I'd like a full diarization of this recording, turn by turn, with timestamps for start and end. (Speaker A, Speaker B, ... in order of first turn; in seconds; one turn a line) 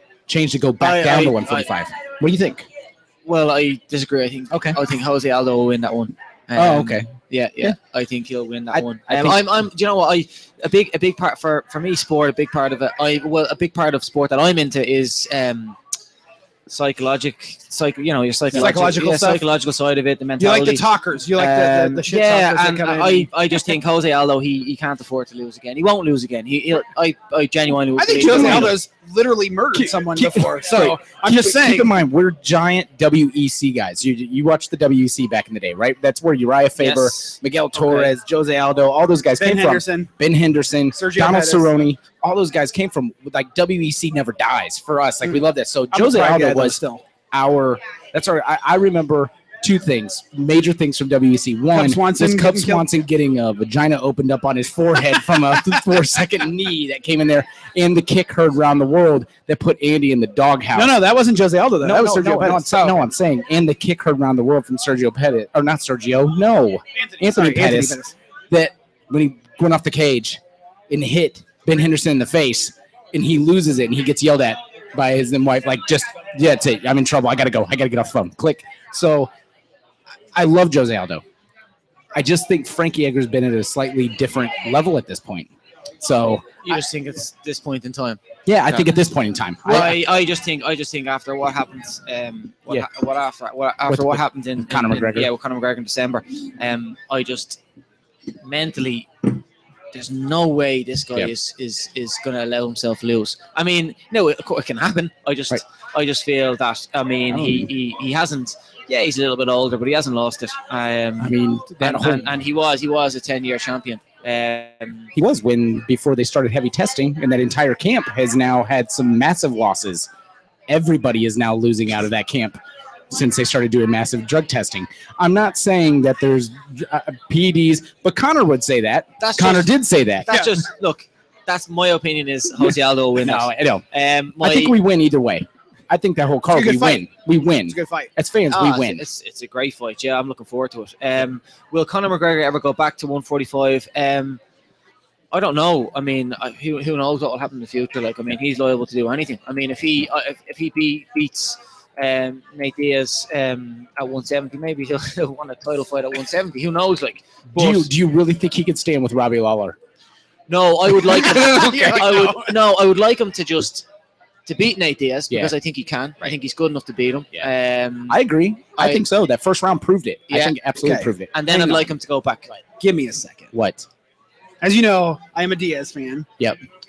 Speaker A: 0.3-2.7
Speaker B: 0.8-1.7
Speaker B: 3.2-15.8
Speaker A: 4.5-4.8
Speaker A: 6.5-7.1
Speaker A: 8.7-9.6
Speaker B: 16.7-20.8
Speaker A: 18.5-18.8
Speaker C: 18.5-19.4
Speaker C: 20.4-23.3
Speaker B: 21.4-28.8
Speaker C: 28.0-31.9
Speaker A: 28.2-28.7
Speaker A: 29.7-46.8
Speaker B: 36.8-38.1
Speaker C: 39.4-40.1
Speaker C: 40.9-41.7
Speaker C: 45.9-47.0
Speaker A: 47.3-60.9
Speaker C: 51.7-52.8
Speaker C: 60.7-63.0
Speaker A: 61.8-68.0
Speaker C: 67.1-68.1
Speaker A: 68.5-79.3
Speaker A: 80.3-81.2
Speaker A: 82.1-85.5
Speaker A: 86.0-86.7
Speaker B: 86.6-88.9
Speaker A: 88.5-90.0
Speaker B: 89.6-97.6
Speaker A: 93.9-95.3
Speaker B: 98.4-99.4
Speaker B: 99.9-115.1
Speaker A: 107.3-107.7
Speaker A: 111.2-112.3
Speaker A: 115.2-120.1
Speaker A: 120.7-122.6
Speaker A: 123.1-130.3
Speaker B: 129.2-129.7
Speaker B: 130.2-134.8
Speaker A: 133.2-133.8
Speaker A: 134.4-139.0
Speaker C: 136.5-137.1
Speaker C: 137.7-138.1
Speaker B: 138.5-144.4
Speaker B: 145.3-157.9
Speaker A: 157.6-159.8
Speaker B: 160.5-163.8
Speaker C: 161.3-162.5
Speaker A: 161.6-161.9
Speaker B: 164.4-168.2
Speaker A: 168.1-171.3
Speaker B: 168.8-169.0
Speaker B: 170.3-170.6
Speaker C: 170.8-171.8
Speaker B: 171.3-172.6
Speaker C: 172.8-173.5
Speaker A: 173.5-173.9
Speaker C: 174.6-176.3